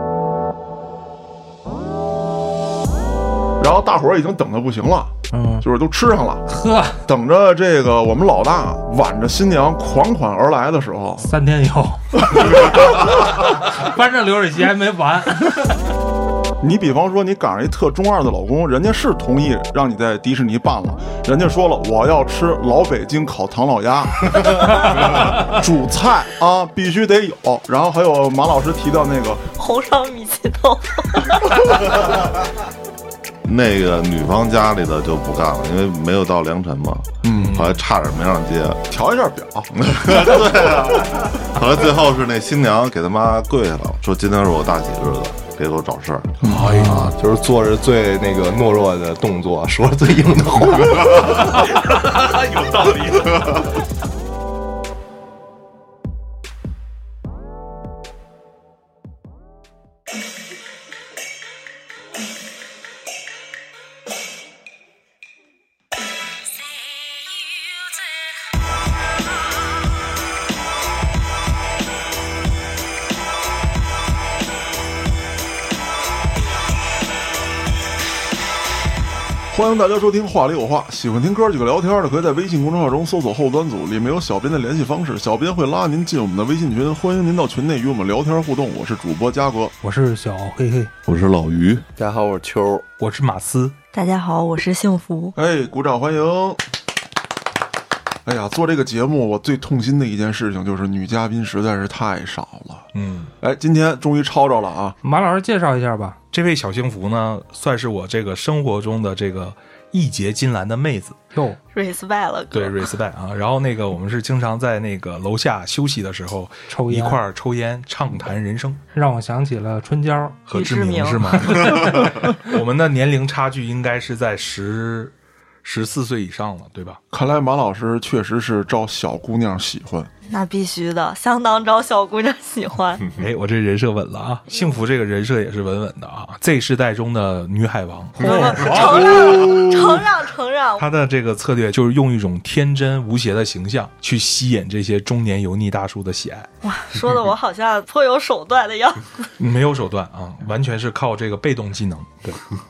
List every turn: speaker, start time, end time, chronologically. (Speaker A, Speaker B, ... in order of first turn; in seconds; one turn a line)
Speaker A: 3.6-6.5
Speaker B: 5.3-5.7
Speaker B: 6.5-7.0
Speaker A: 7.0-11.4
Speaker B: 11.2-15.7
Speaker A: 16.6-29.4
Speaker B: 24.8-25.2
Speaker C: 29.6-32.0
Speaker D: 33.4-38.9
Speaker A: 37.2-37.7
Speaker E: 37.3-37.8
Speaker A: 38.9-41.0
Speaker D: 40.0-46.4
Speaker A: 46.4-46.7
Speaker E: 46.4-47.1
Speaker B: 46.6-47.2
Speaker F: 46.9-51.4
Speaker B: 51.1-52.8
Speaker E: 52.1-53.3
Speaker A: 79.5-89.7
Speaker B: 89.8-90.9
Speaker D: 91.0-91.8
Speaker F: 92.0-92.8
Speaker E: 93.0-93.7
Speaker C: 93.9-95.3
Speaker A: 95.3-96.6
Speaker A: 98.2-102.9
Speaker E: 102.9-103.3
Speaker A: 103.4-105.0
Speaker B: 105.0-106.2
Speaker E: 106.3-111.2
Speaker B: 111.3-111.6
Speaker C: 111.7-112.9
Speaker E: 112.5-118.8
Speaker B: 116.7-117.2
Speaker B: 118.9-120.4
Speaker E: 120.5-127.0
Speaker C: 120.5-121.6
Speaker B: 121.4-122.3
Speaker A: 127.1-130.1
Speaker C: 130.3-133.1
Speaker E: 133.2-140.1
Speaker B: 138.2-139.5
Speaker C: 138.2-140.9
Speaker E: 140.8-146.5
Speaker C: 146.6-149.3
Speaker E: 149.4-152.3